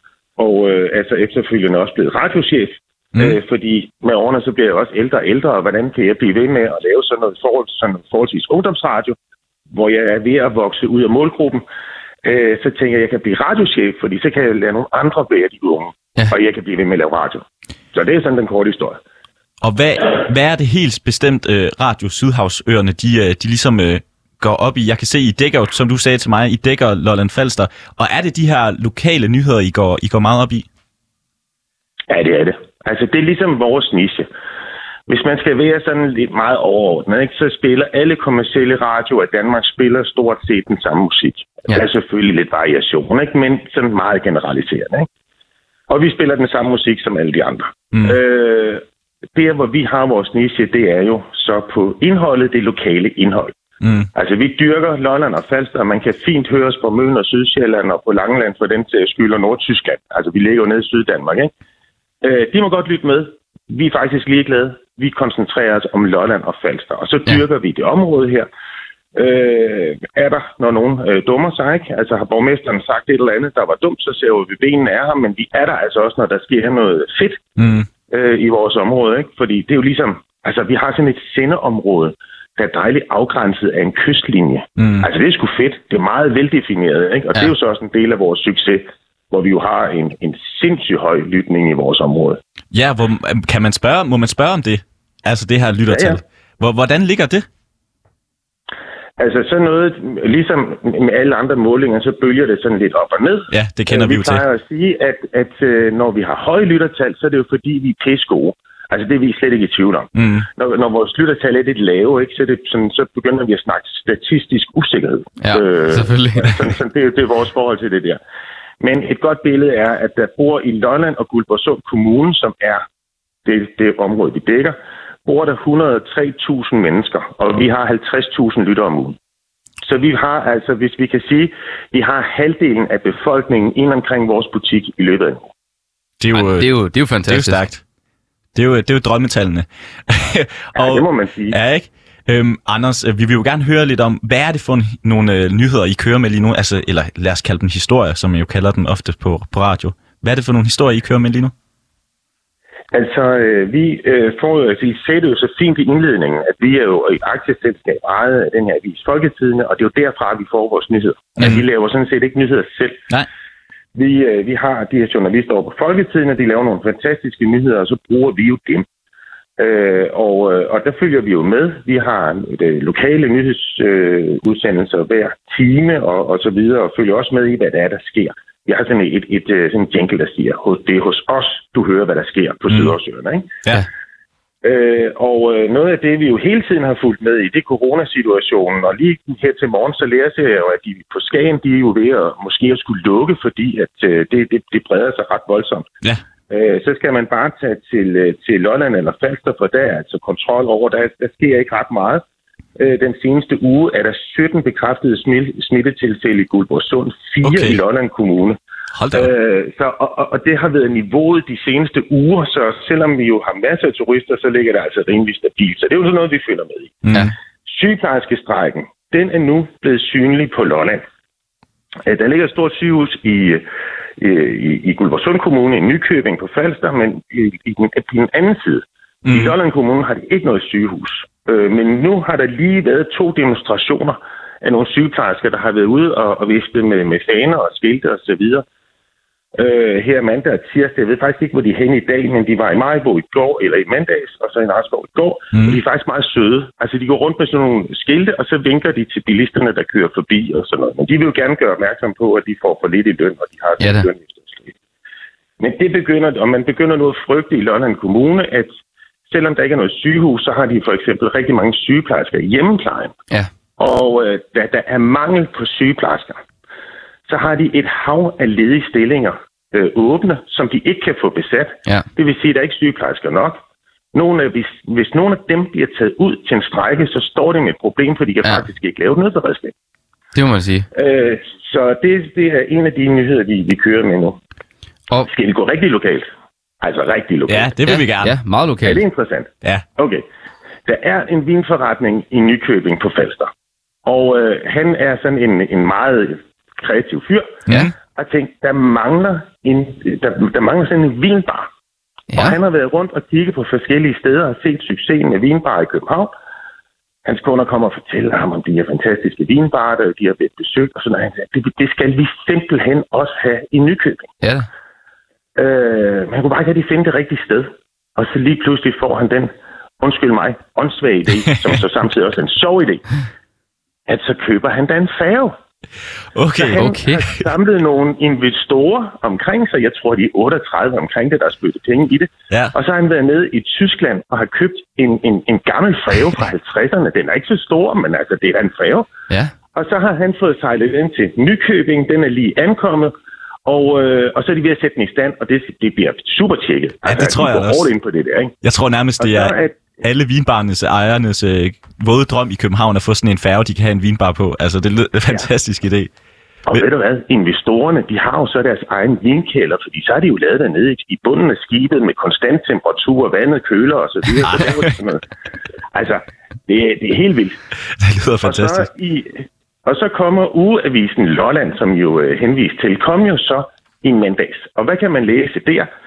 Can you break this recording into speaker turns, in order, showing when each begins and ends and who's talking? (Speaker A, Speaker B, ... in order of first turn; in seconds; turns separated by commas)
Speaker A: 0.4-9.2, Speaker A: 9.7-11.6, Speaker A: 12.2-19.0, Speaker B: 19.6-30.6, Speaker A: 32.1-34.3, Speaker A: 35.1-45.1, Speaker A: 45.9-48.8, Speaker A: 49.3-53.5, Speaker B: 53.8-54.1, Speaker A: 54.1-61.5, Speaker A: 62.2-68.5, Speaker A: 69.1-77.5, Speaker B: 77.6-77.9, Speaker A: 78.1-92.4, Speaker B: 84.8-85.0, Speaker B: 92.7-97.5, Speaker A: 95.9-96.2, Speaker A: 99.2-118.2, Speaker B: 103.5-104.4, Speaker B: 110.2-110.4, Speaker C: 115.4-116.5, Speaker A: 118.8-122.8, Speaker A: 123.4-129.2, Speaker A: 129.8-135.5, Speaker B: 136.2-137.8, Speaker C: 136.3-137.6, Speaker B: 138.5-151.5, Speaker A: 140.7-141.6, Speaker A: 152.9-163.0, Speaker A: 163.9-168.8, Speaker A: 169.6-183.5, Speaker A: 184.6-195.9, Speaker A: 196.5-202.2, Speaker A: 202.8-208.6, Speaker B: 207.4-207.8, Speaker B: 208.9-209.3, Speaker A: 209.1-217.0, Speaker B: 217.0-217.3, Speaker A: 217.7-221.0, Speaker A: 222.0-223.6, Speaker A: 224.2-238.6, Speaker B: 229.2-229.5, Speaker A: 239.6-254.7, Speaker C: 253.8-254.1, Speaker A: 255.6-258.8, Speaker A: 259.3-263.1, Speaker A: 263.8-266.4, Speaker A: 267.3-273.6, Speaker A: 274.1-279.7, Speaker C: 280.3-280.9, Speaker A: 280.9-284.4, Speaker A: 285.2-286.3, Speaker A: 286.8-287.7, Speaker B: 287.5-288.4, Speaker C: 287.8-289.0, Speaker A: 288.8-290.2, Speaker A: 290.9-293.5, Speaker A: 294.0-301.7, Speaker B: 297.7-297.9, Speaker C: 302.3-302.6, Speaker A: 302.3-306.3, Speaker A: 307.2-314.3, Speaker C: 314.4-314.7, Speaker A: 315.6-323.1, Speaker A: 324.1-325.6, Speaker B: 326.3-326.8, Speaker A: 326.6-339.1, Speaker C: 326.7-327.3, Speaker A: 339.7-343.1, Speaker A: 343.6-348.5, Speaker B: 347.0-347.9, Speaker B: 348.6-356.1, Speaker A: 349.2-350.0, Speaker A: 356.6-365.2, Speaker B: 364.4-364.8, Speaker A: 365.9-367.6, Speaker B: 368.0-368.9, Speaker A: 368.4-375.9